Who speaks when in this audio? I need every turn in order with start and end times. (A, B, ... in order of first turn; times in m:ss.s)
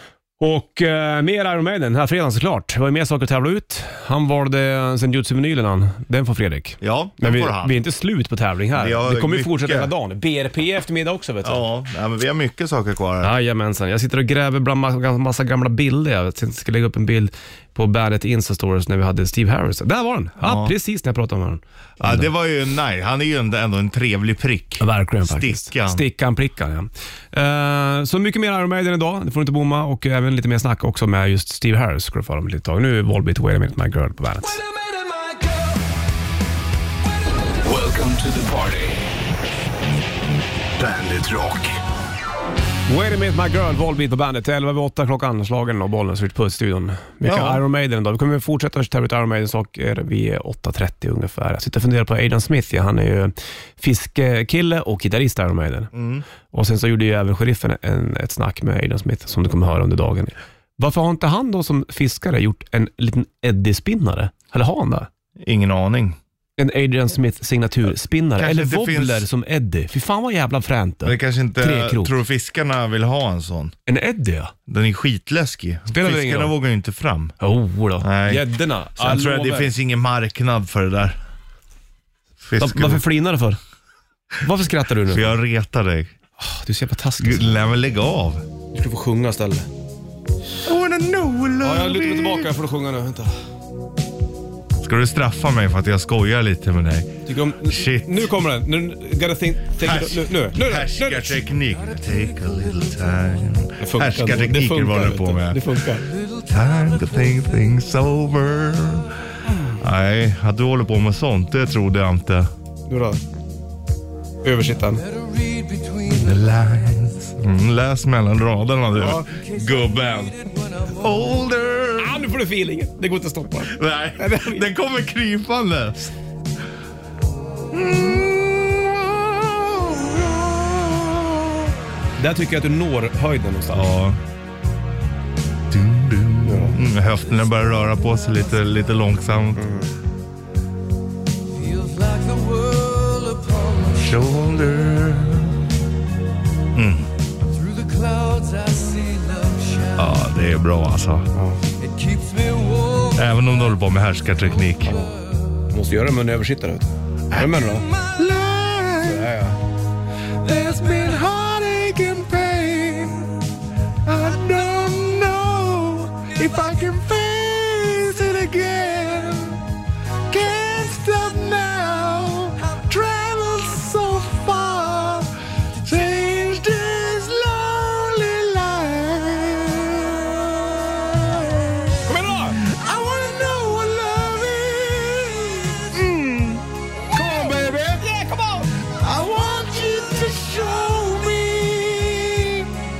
0:00.4-0:11.6 A
0:06.8-0:07.8 B
0:08.8-0:09.9 B
0:11.4-0:13.3 B
0:13.2-0:22.3 A
0:20.4-0:20.7 B
0:22.0-0:26.0 B
0:24.8-0:34.6 A
0:42.9-0:55.9 A
0:47.2-0:47.6 B
0:55.9-0:56.2 B
0:56.5-1:05.1 A
1:05.4-1:06.2 B
1:06.6-1:12.2 A
1:08.4-1:09.2 B
1:11.0-1:13.8 B
1:13.9-1:14.5 A
1:14.7-1:17.4 B
1:15.9-1:16.6 A
1:17.4-1:19.7 A
1:18.0-1:18.4 B
1:19.0-1:21.2 B
1:22.4-1:23.0 B
1:22.6-1:23.6 A
1:24.4-1:25.4 A
1:25.1-1:26.1 B
1:26.4-1:27.6 A
1:27.2-1:28.4 B
1:28.7-1:29.7 A
1:30.6-1:32.5 B
1:31.6-1:33.3 A
1:34.8-1:38.3 B
1:37.3-1:41.4 A
1:39.8-1:45.7 B
1:43.8-1:46.1 A
1:46.4-1:49.1 B
1:49.5-1:49.8 A
1:49.8-1:52.5 B
1:52.9-1:53.2 A
1:54.4-1:55.0 A
1:56.0-2:02.2 B
1:59.0-1:59.3 A
2:02.0-2:04.7 A
2:03.7-2:06.1 B
2:07.7-2:11.7 B
2:12.2-2:13.9 A
2:13.7-2:14.2 B
2:15.7-2:19.7 B
2:16.4-2:16.8 A
2:19.6-2:19.9 A
2:23.8-2:25.6 B
2:26.7-2:27.1 B
2:29.9-2:31.3 B
2:31.3-2:31.6 A
2:33.1-2:35.0 B
2:34.9-2:35.1 A
2:35.7-2:37.9 A
2:37.3-2:39.4 B
2:39.0-2:39.6 A
2:40.4-2:43.4 B
2:44.0-2:49.6 B
2:50.3-2:55.3 B
2:55.8-3:08.1 B
3:02.1-3:02.6 A
3:07.1-3:08.7 A
3:08.8-3:12.7 B